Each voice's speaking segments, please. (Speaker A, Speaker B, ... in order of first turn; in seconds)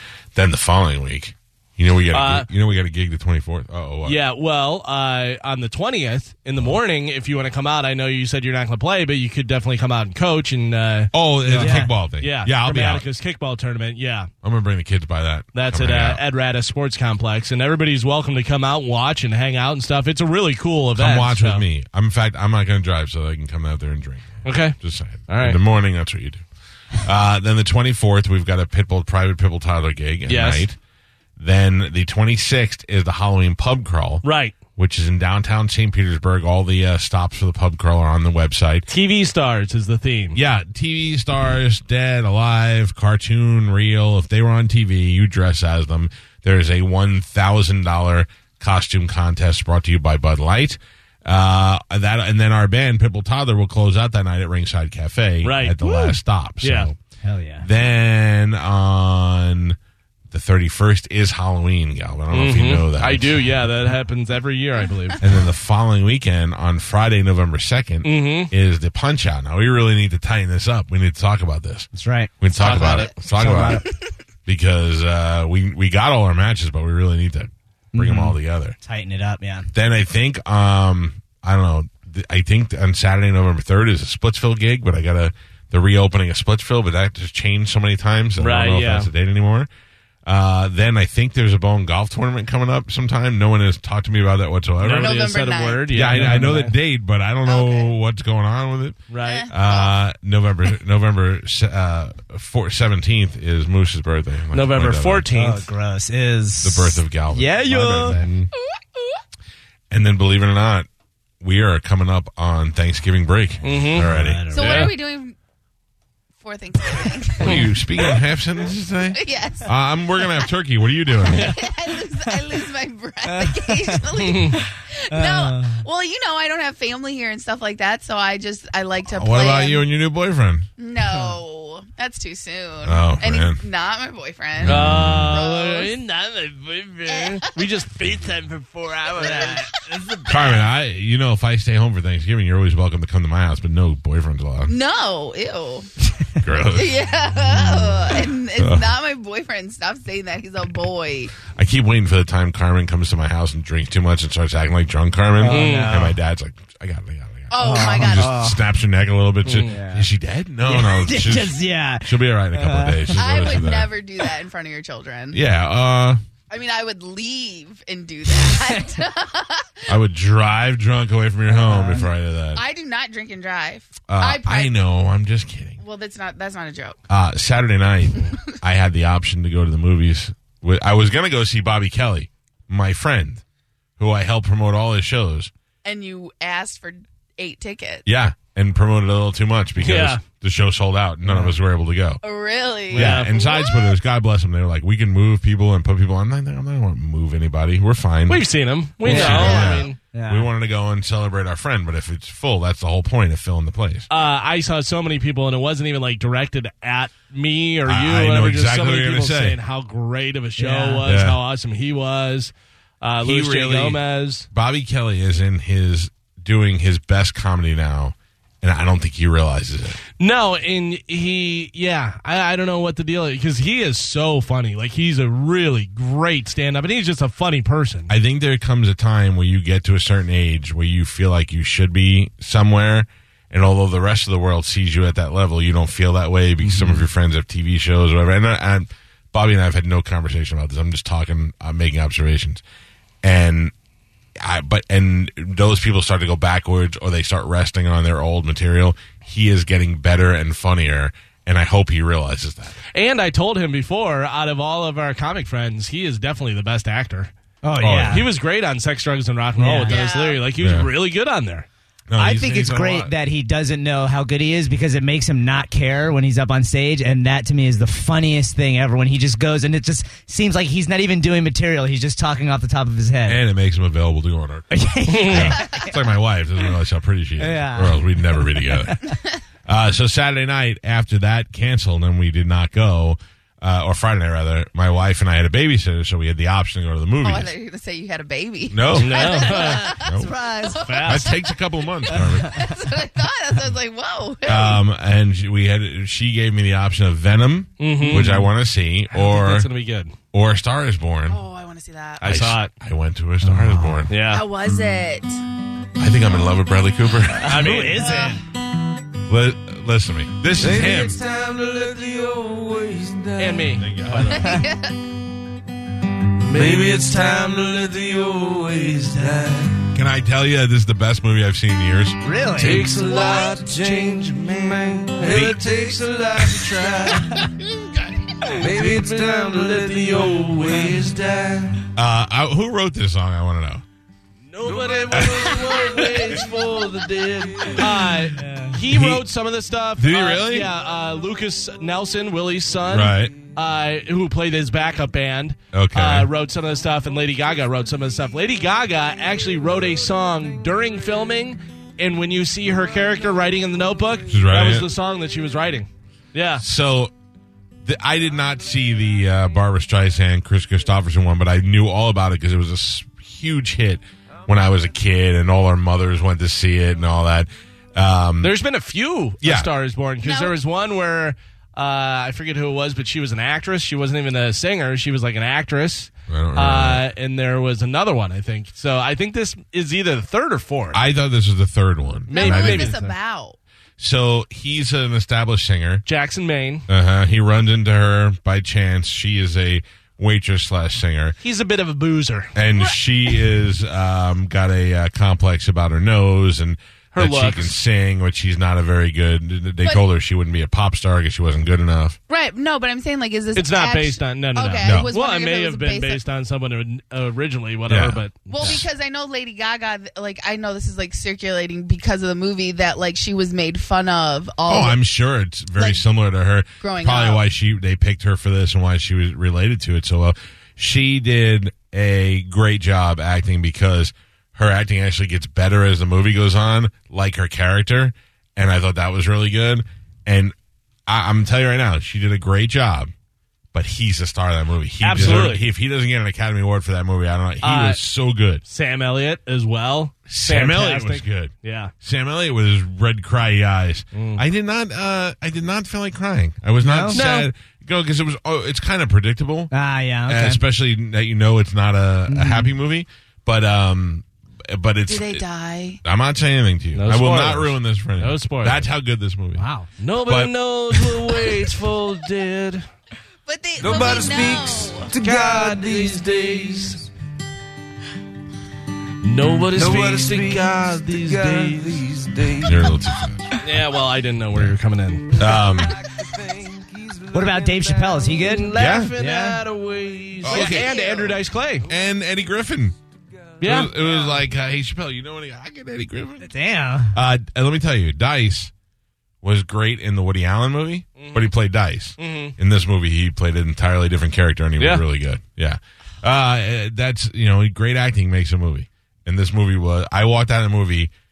Speaker A: 0.3-4.2, 11.1-13.1, 14.4-16.2, 20.9-26.4, 27.0-30.8, 31.4-34.2, 34.8-38.9, 40.3-57.0, 57.6-59.8, 60.3-63.5, 65.2-71.9, 72.4-73.8, 74.5-78.8, 79.7-89.7, 90.3-95.2, 95.9-105.3, 106.6-108.5, 109.9-110.9, 111.4-114.4, 117.4-121.5, 129.1-130.7, 132.8-133.6, 134.6-135.4, 140.3-144.7, 146.4-148.9, 151.6-163.9, 165.3-166.2, 169.9-172.6, 174.1-175.8, 177.1-183.4, 184.0-185.5, 188.1-192.2, 192.9-198.5, 199.0-204.1, 207.9-209.6, 211.1-211.4, 213.2-220.0, 228.1-242.6, 243.2-243.7, 244.4-252.8, 257.8-258.2, 260.6-260.9, 262.1-263.1, 273.2-274.7, 275.2-279.0, 279.7-287.5, 288.7-289.4, 290.0-290.4, 291.1-292.6, 294.4-299.7, 300.3-301.4, 302.2-304.1, 306.0-307.7, 309.3-311.2, 313.8-314.6, 319.9-322.2, 325.3-325.6, 331.9-333.8, 335.1-335.4, 338.9-339.2, 340.0-340.7, 342.9-343.4, 345.7-346.3, 354.3-354.9, 356.6-357.1, 357.9-368.6, 369.4-369.7, 376.3-377.1, 380.9-383.0, 384.0-386.1, 386.9-391.4, 392.6-402.2, 404.8-405.1, 407.9-408.8, 414.7-430.5, 431.1-433.1, 433.7-438.6, 440.3-449.7, 450.3-455.4, 456.0-459.6, 460.2-460.6, 472.6-473.5, 475.4-476.0, 478.7-479.1, 480.4-481.0, 481.8-483.0, 483.6-486.5, 487.1-488.7, 489.4-501.1
Speaker B: 2.1-2.5, 4.0-14.3, 15.5-21.7, 24.4-25.6, 30.3-30.7, 34.2-34.5, 38.9-40.4, 55.4-56.9, 62.3-65.2, 68.0-68.5, 72.5-73.2, 88.4-89.1, 94.8-96.7, 99.1-99.5, 104.5-105.7, 113.6-114.9, 117.4-117.8, 124.2-124.6, 134.6-139.7, 155.5-155.9, 159.4-159.7, 189.8-190.2, 192.9-193.3, 198.3-200.0, 204.1-214.5, 220.2-228.1, 236.6-237.1, 252.9-257.3, 258.1-261.7, 275.1-275.6, 288.9-289.9, 290.9-291.2, 297.8-298.5, 299.1-300.1, 302.2-302.7, 304.1-304.4, 307.5-308.1, 313.4-313.9, 316.4-317.1, 322.9-324.4, 325.2-325.5, 328.6-331.3, 334.5-356.6, 368.4-381.0, 382.3-383.1, 386.1-386.9, 391.4-392.5, 397.1-397.8, 403.6-408.8, 435.0-435.6, 437.6-438.0, 438.6-441.9, 444.1-444.4, 447.1-447.5, 456.9-458.9, 459.8-462.9, 465.1-467.0, 469.2-472.1, 473.6-475.5, 478.4-481.9, 483.6-484.0, 491.2-491.5, 492.2-492.6, 494.8-495.1
Speaker C: 11.5-11.9, 57.2-57.7, 71.9-72.3, 73.3-73.8, 77.9-79.7, 96.1-96.6, 105.3-108.2, 113.6-114.9, 121.3-121.6, 122.1-122.6, 123.2-125.8, 131.0-131.4, 139.1-140.6, 155.4-156.2, 157.6-158.6, 159.6-160.1, 160.6-163.8, 168.4-168.9, 171.5-172.1, 191.2-191.6, 199.1-200.5, 210.6-211.1, 257.6-258.3, 259.6-260.0, 262.1-273.4, 274.7-276.0, 277.4-279.1, 289.3-291.1, 292.1-292.8, 303.4-304.1, 307.3-308.4, 314.1-314.7, 322.2-322.9, 337.8-338.8, 446.8-447.3, 449.7-450.6, 452.3-452.7, 459.6-459.9, 477.3-479.6, 486.4-487.2
Speaker D: 72.6-73.0, 95.0-96.0, 97.5-97.9, 99.2-100.0, 108.6-109.1, 114.5-115.4, 116.4-118.1, 119.1-120.5, 121.3-129.9, 130.8-135.9, 137.1-137.5, 144.7-145.9, 146.7-151.3, 157.5-158.3, 163.1-165.4, 166.5-169.8, 172.5-174.8, 175.8-177.0, 178.1-178.5, 185.8-188.1, 192.2-194.0, 199.1-199.9, 259.9-260.4, 287.2-294.8, 301.3-302.3, 304.3-305.4, 307.9-308.4, 314.3-314.9, 323.2-323.6, 370.2-370.6, 382.3-383.6, 392.7-393.0, 402.3-406.2, 408.5-415.0, 415.7-416.0, 416.8-417.4, 455.1-456.0, 463.5-465.1, 480.5-481.3
Speaker E: 310.6-313.8, 316.5-319.8, 322.6-327.3, 328.6-331.8, 334.6-337.8, 463.8-466.8, 469.7-472.8, 476.1-478.7, 480.9-481.4